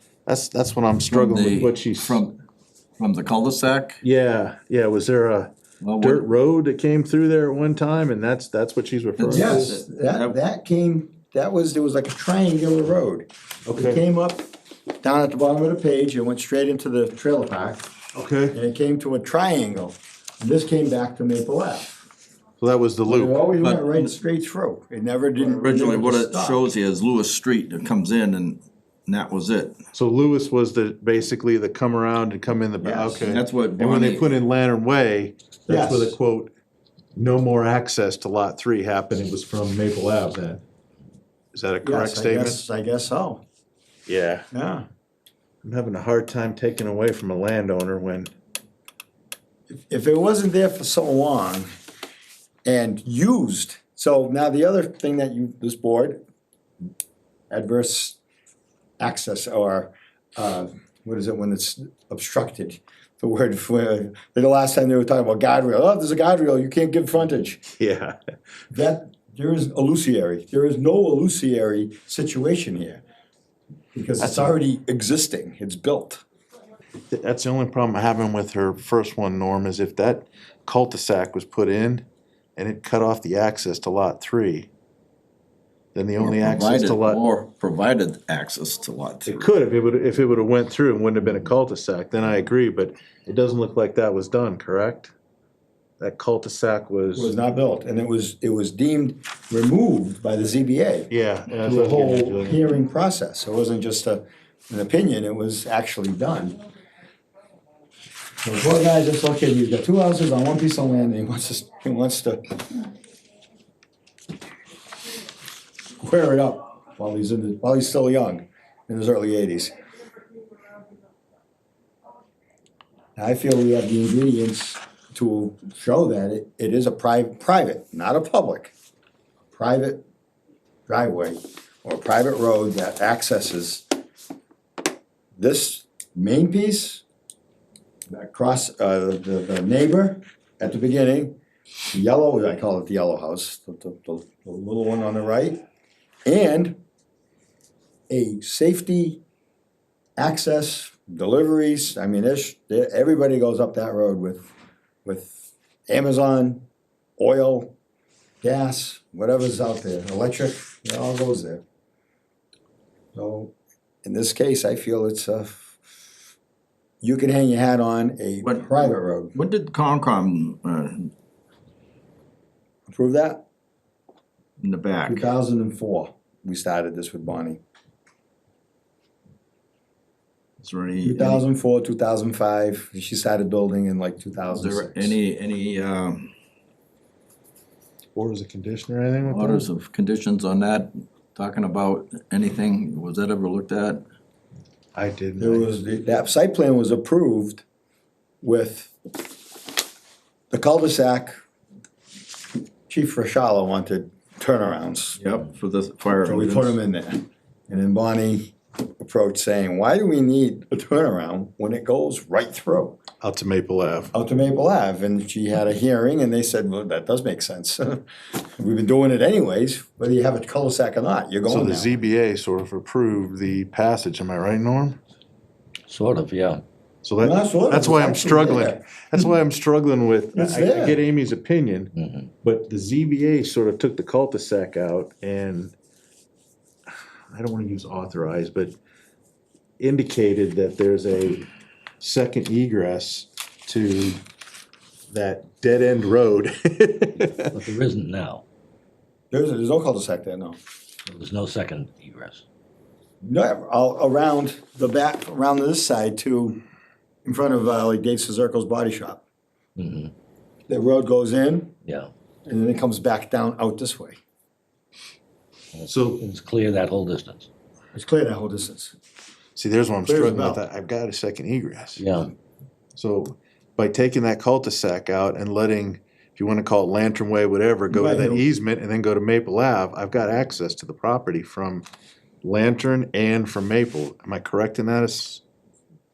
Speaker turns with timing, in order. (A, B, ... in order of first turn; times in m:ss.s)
0:00.2-0:02.2 A
0:01.1-0:02.4 B
0:03.0-0:04.0 B
0:04.0-0:09.7 A
0:05.8-0:06.2 B
0:09.2-0:10.4 B
0:09.3-0:14.4 C
0:13.6-0:14.0 A
0:15.0-0:17.8 C
0:18.1-0:18.6 A
0:18.5-0:22.0 C
0:22.6-0:23.5 A
0:23.1-0:26.6 C
0:23.6-0:24.1 B
0:25.4-0:29.8 B
0:29.9-0:36.5 A
0:32.8-0:33.2 C
0:33.2-0:34.3 B
0:35.7-0:36.2 C
0:37.1-0:40.6 A
0:41.5-0:42.6 A
0:41.8-0:43.4 C
0:44.1-0:44.5 A
0:44.5-0:44.9 C
0:45.6-0:48.3 A
0:49.7-0:51.7 C
0:52.6-0:56.2 C
0:57.5-0:58.2 C
0:59.0-1:07.6 C
1:07.8-1:08.2 A
1:08.7-1:13.0 C
1:13.9-1:16.2 C
1:14.2-1:14.5 A
1:17.1-1:22.0 A
1:22.6-1:24.7 A
1:25.9-1:27.2 A
1:26.2-1:29.5 B
1:29.2-1:35.1 A
1:36.0-1:37.3 A
1:37.2-1:46.6 C
1:41.1-1:42.6 A
1:48.4-1:52.8 C
1:56.0-1:59.7 C
2:03.2-2:08.7 C
2:09.5-2:10.0 C
2:10.9-2:13.8 C
2:15.4-2:17.0 C
2:18.1-2:21.4 C
2:21.9-2:25.6 C
2:26.2-2:26.8 C
2:28.1-2:29.2 C
2:30.2-2:34.5 C
2:35.0-2:35.3 C
2:35.9-2:36.6 C
2:37.2-2:37.7 C
2:38.4-2:41.6 C
2:43.1-2:45.7 C
2:47.0-2:49.4 C
2:48.4-2:51.1 B
2:52.9-2:53.4 C
2:54.6-2:55.3 B
2:55.0-2:57.6 C
3:00.6-3:01.4 B
3:01.0-3:05.2 C
3:04.5-3:06.3 B
3:08.1-3:09.6 A
3:09.2-3:14.0 B
3:14.9-3:15.7 A
3:15.4-3:17.6 C
3:18.4-3:18.9 C
3:20.5-3:21.4 C
3:22.9-3:25.2 C
3:25.2-3:26.8 B
3:26.2-3:33.0 C
3:33.2-3:34.1 A
3:34.1-3:41.9 C
3:41.5-3:45.0 A
3:45.9-3:46.6 D
3:47.0-3:51.9 A
3:47.2-3:48.8 C
3:50.3-3:51.0 C
3:51.9-3:52.3 D
3:52.4-3:55.7 A
3:57.3-3:58.7 A
3:59.8-4:01.5 A
4:02.0-4:04.2 A
4:05.1-4:07.5 A
4:07.5-4:08.4 D
4:09.3-4:10.6 C
4:11.0-4:12.4 D
4:13.2-4:16.6 C
4:17.2-4:19.2 C
4:19.8-4:20.1 D
4:20.7-4:21.7 C
4:21.8-4:22.1 D
4:22.4-4:24.2 C
4:25.7-4:27.5 D
4:25.9-4:26.2 A
4:27.9-4:28.9 C
4:29.6-4:32.0 A
4:30.0-4:30.6 C
4:32.0-4:32.3 D
4:32.9-4:41.8 A
4:37.9-4:38.5 C
4:42.4-4:45.4 A